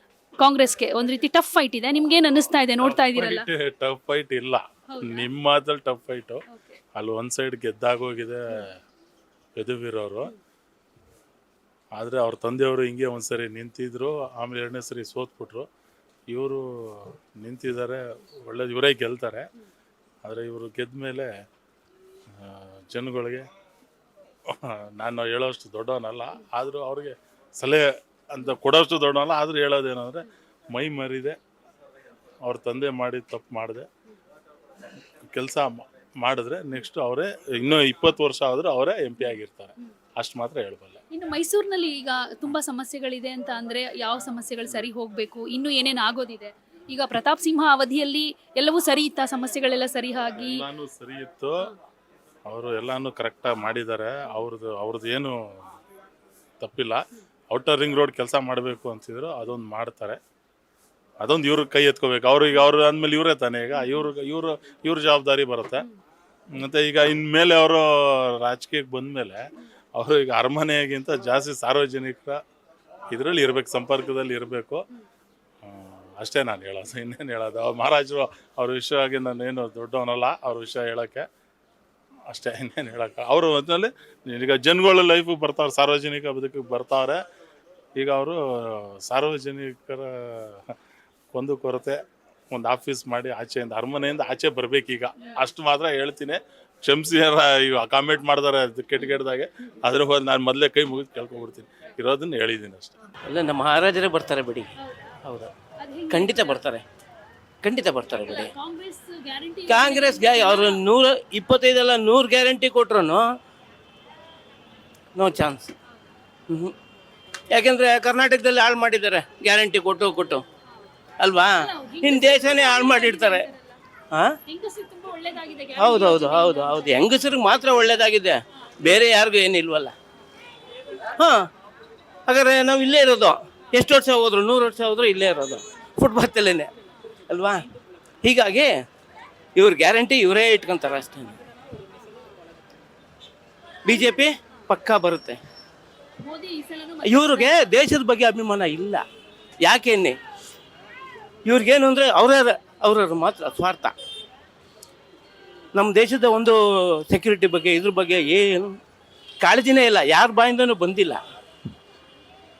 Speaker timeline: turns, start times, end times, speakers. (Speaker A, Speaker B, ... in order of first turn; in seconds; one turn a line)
Speaker A: 0.4-3.5
Speaker B: 2.8-6.4
Speaker A: 4.9-5.2
Speaker A: 6.5-6.8
Speaker B: 6.9-8.7
Speaker B: 9.6-10.3
Speaker B: 12.0-15.7
Speaker B: 16.3-19.4
Speaker B: 20.2-21.3
Speaker B: 22.3-23.4
Speaker B: 24.5-31.4
Speaker B: 32.4-33.9
Speaker B: 35.3-41.0
Speaker A: 41.1-50.6
Speaker B: 50.4-51.7
Speaker B: 52.5-55.7
Speaker B: 56.6-60.2
Speaker B: 61.2-65.8
Speaker B: 66.5-69.4
Speaker B: 70.0-72.4
Speaker B: 73.1-74.8
Speaker B: 75.6-81.2
Speaker B: 82.3-87.2
Speaker B: 88.0-90.7
Speaker B: 91.3-92.0
Speaker B: 92.5-103.0
Speaker C: 103.3-104.7
Speaker A: 104.8-105.2
Speaker A: 105.8-106.6
Speaker C: 106.1-106.8
Speaker C: 107.6-108.5
Speaker A: 108.1-110.8
Speaker C: 109.7-113.2
Speaker C: 115.2-115.7
Speaker C: 116.5-116.7
Speaker C: 117.5-120.4
Speaker C: 121.2-123.5
Speaker A: 121.5-123.8
Speaker A: 124.5-127.1
Speaker C: 125.8-129.9
Speaker C: 131.2-131.5
Speaker C: 132.3-136.7
Speaker C: 137.3-137.6
Speaker C: 138.2-138.7
Speaker C: 139.6-141.3
Speaker C: 143.8-145.4
Speaker A: 143.9-144.3
Speaker A: 146.2-147.8
Speaker C: 147.0-149.0
Speaker C: 149.6-150.2
Speaker C: 151.4-153.9
Speaker C: 155.7-158.8
Speaker C: 159.4-161.2